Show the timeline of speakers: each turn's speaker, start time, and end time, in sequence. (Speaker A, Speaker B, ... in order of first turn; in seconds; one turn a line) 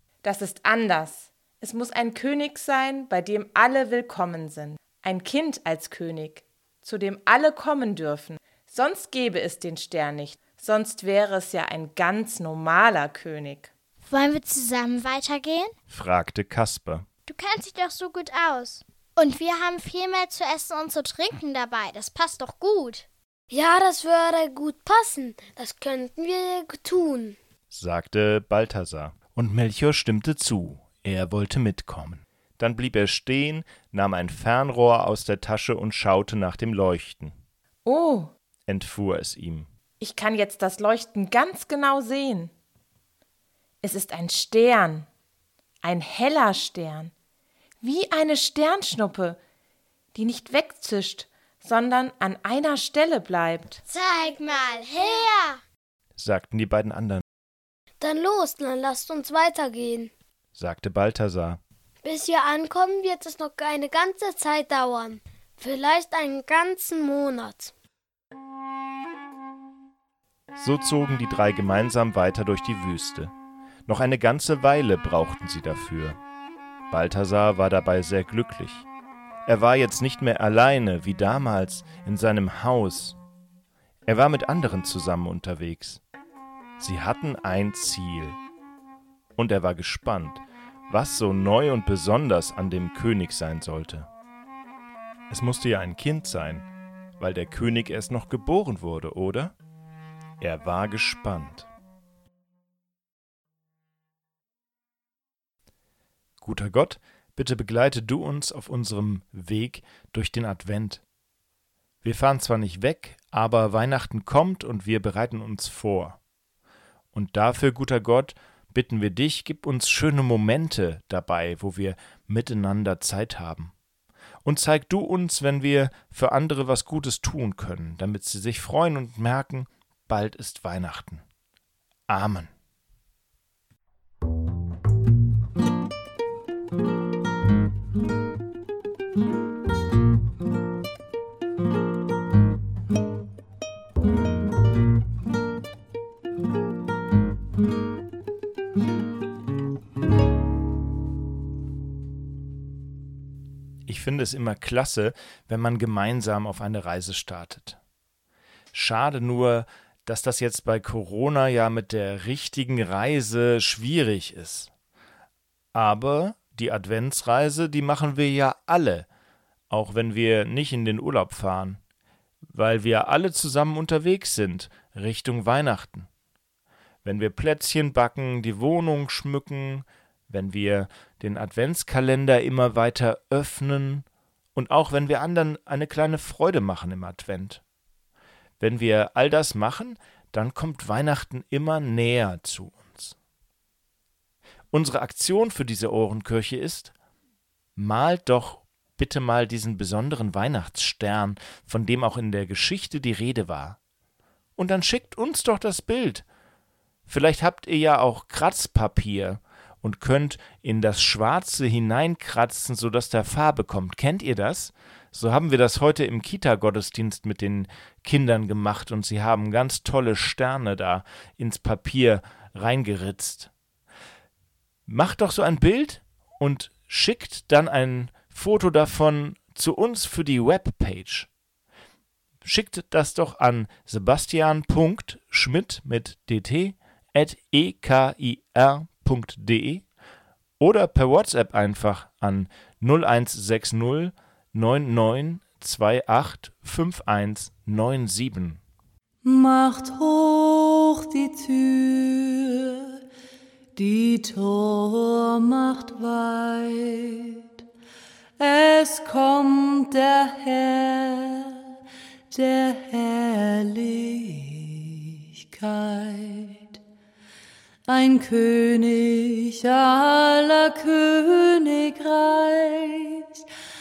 Speaker A: 0.2-13.7
Speaker B: 14.1-15.7
Speaker C: 15.9-17.1
Speaker B: 17.3-23.1
Speaker D: 23.5-27.4
Speaker C: 27.7-37.4
Speaker A: 37.9-38.3
Speaker C: 38.7-39.7
Speaker A: 40.0-42.5
Speaker A: 43.8-45.1
Speaker A: 45.8-47.1
Speaker A: 47.8-49.4
Speaker A: 50.1-53.8
Speaker B: 53.9-55.6
Speaker D: 54.7-55.3
Speaker C: 56.2-57.2
Speaker D: 58.0-60.1
Speaker C: 60.5-61.6
Speaker D: 62.0-67.7
Speaker C: 70.5-73.3
Speaker C: 73.9-76.2
Speaker C: 76.9-78.9
Speaker C: 79.5-83.2
Speaker C: 84.1-86.0
Speaker C: 86.8-88.4
Speaker C: 89.4-94.1
Speaker C: 95.3-96.7
Speaker C: 97.2-99.5
Speaker C: 100.4-101.7
Speaker C: 106.4-111.0
Speaker C: 112.0-116.2
Speaker C: 117.1-123.7
Speaker C: 124.5-131.2
Speaker C: 132.1-132.5
Speaker C: 153.9-157.8
Speaker C: 158.7-164.7
Speaker C: 165.8-169.1
Speaker C: 169.7-171.8
Speaker C: 172.5-176.1
Speaker C: 177.0-187.6
Speaker C: 188.6-193.2
Speaker C: 194.7-196.9
Speaker C: 197.8-203.8
Speaker C: 204.6-206.3
Speaker C: 207.1-223.5
Speaker C: 224.9-231.3
Speaker C: 232.4-239.9
Speaker C: 240.6-248.6
Speaker E: 249.2-253.0
Speaker E: 253.8-257.6
Speaker E: 258.4-261.7
Speaker E: 262.3-266.8
Speaker E: 267.9-273.4